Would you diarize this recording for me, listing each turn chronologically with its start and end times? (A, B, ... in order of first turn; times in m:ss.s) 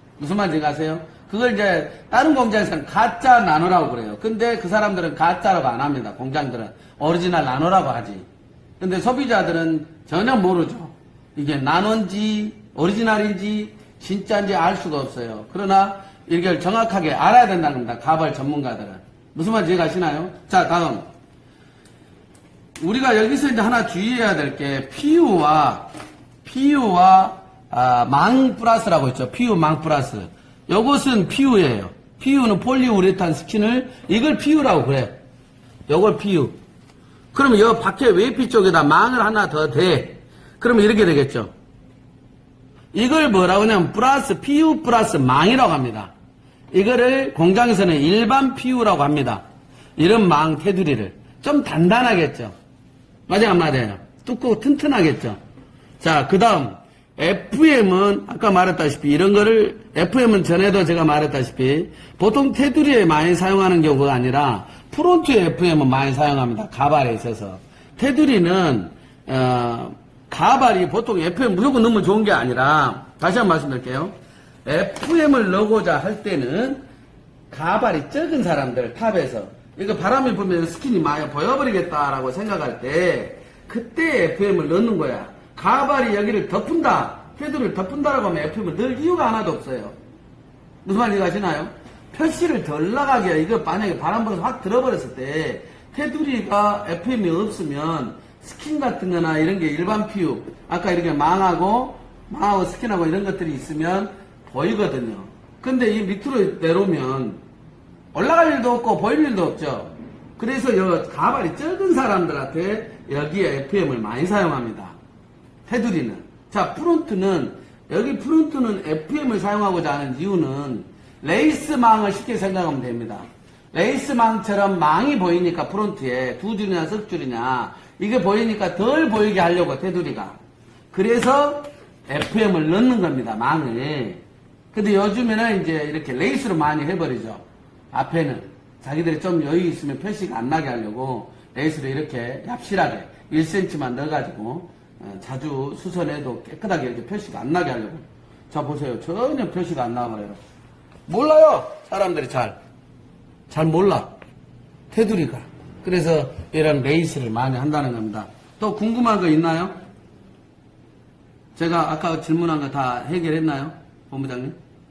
0:00.2-0:08.2 A
0:08.8-0:21.1 A
0:22.8-0:25.9 A
0:26.4-0:35.1 A
0:35.9-0:36.5 A
0:37.3-0:41.5 A
0:42.9-0:46.1 A
0:46.7-0:49.4 A
0:50.0-0:52.5 A
0:53.3-0:55.4 A
0:56.0-1:14.1 A
1:14.6-1:16.8 A
1:17.5-1:29.9 A
1:30.8-1:47.4 A
1:48.1-1:55.0 A
1:55.7-2:10.4 A
2:10.9-2:14.2 A
2:14.7-2:30.4 A
2:31.1-2:32.6 A
2:33.5-2:34.1 A
2:34.9-2:39.7 A
2:41.6-2:44.6 A